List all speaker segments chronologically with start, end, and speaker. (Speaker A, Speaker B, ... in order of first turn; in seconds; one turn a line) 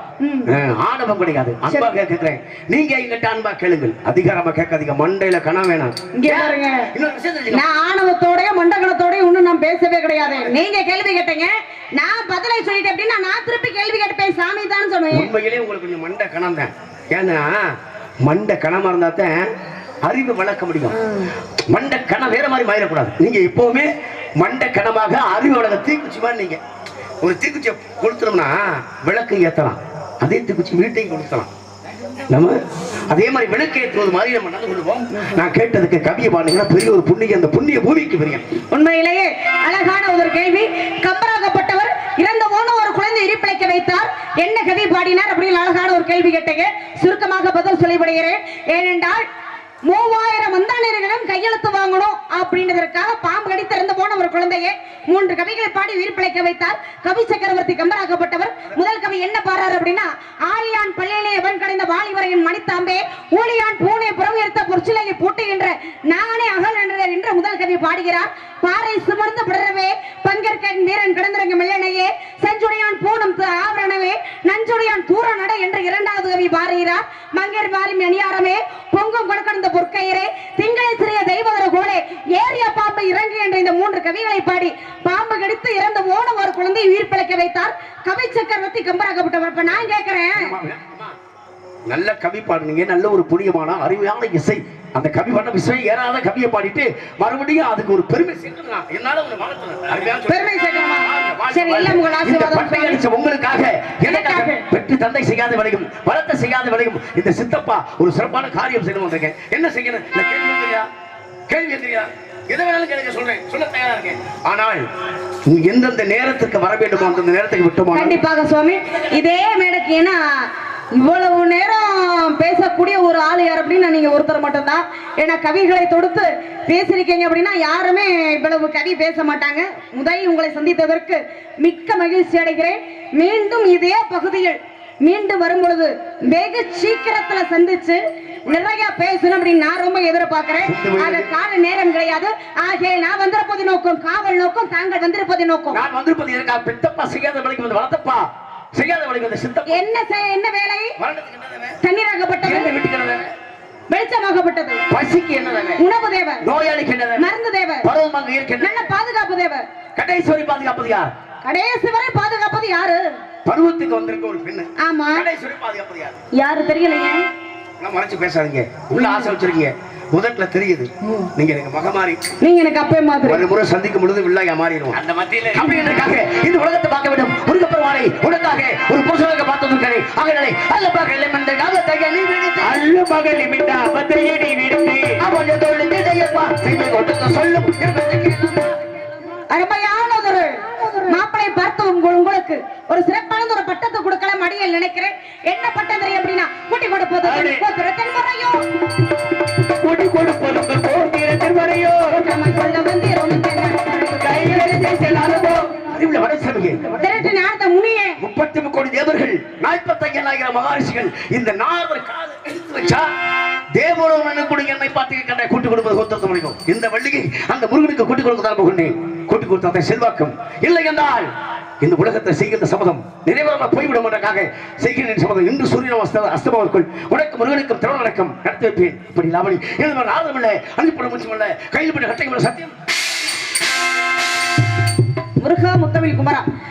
Speaker A: 0.2-0.5
Speaker B: 0.5-7.7
Speaker A: 1.7-1.9
Speaker A: 6.1-6.9
Speaker A: 7.5-15.3
Speaker B: 15.1-19.5
Speaker B: 20.0-21.1
Speaker B: 21.7-23.9
Speaker B: 24.4-26.6
Speaker B: 27.2-31.5
Speaker B: 32.3-32.5
Speaker B: 33.1-38.5
Speaker A: 38.7-49.2
Speaker A: 49.9-90.6
Speaker B: 90.3-91.1
Speaker B: 91.9-110.9
Speaker A: 100.3-103.0
Speaker A: 104.0-104.7
Speaker B: 111.5-114.8
Speaker B: 115.5-118.2
Speaker A: 117.9-145.8
Speaker B: 140.7-141.3
Speaker B: 145.7-149.8
Speaker A: 149.7-150.9
Speaker B: 151.0-151.8
Speaker A: 151.8-152.7
Speaker B: 152.4-153.3
Speaker A: 153.9-154.8
Speaker B: 154.9-155.8
Speaker A: 155.8-156.5
Speaker B: 156.4-157.3
Speaker A: 157.2-157.9
Speaker B: 157.8-158.9
Speaker A: 158.6-159.7
Speaker B: 159.9-161.1
Speaker A: 161.4-163.2
Speaker B: 163.4-166.2
Speaker A: 164.8-165.3
Speaker A: 166.3-167.3
Speaker B: 167.8-172.2
Speaker A: 172.4-173.4
Speaker B: 173.2-182.9
Speaker C: 175.1-175.3
Speaker C: 182.7-185.2
Speaker B: 185.1-188.8
Speaker A: 189.5-198.7
Speaker B: 197.3-197.6
Speaker C: 199.8-202.0
Speaker B: 200.7-202.0
Speaker A: 202.0-205.7
Speaker C: 204.2-205.4
Speaker B: 204.3-206.8
Speaker A: 206.9-208.2
Speaker B: 208.2-213.1
Speaker B: 213.7-221.3
Speaker B: 221.8-232.7
Speaker A: 235.4-236.5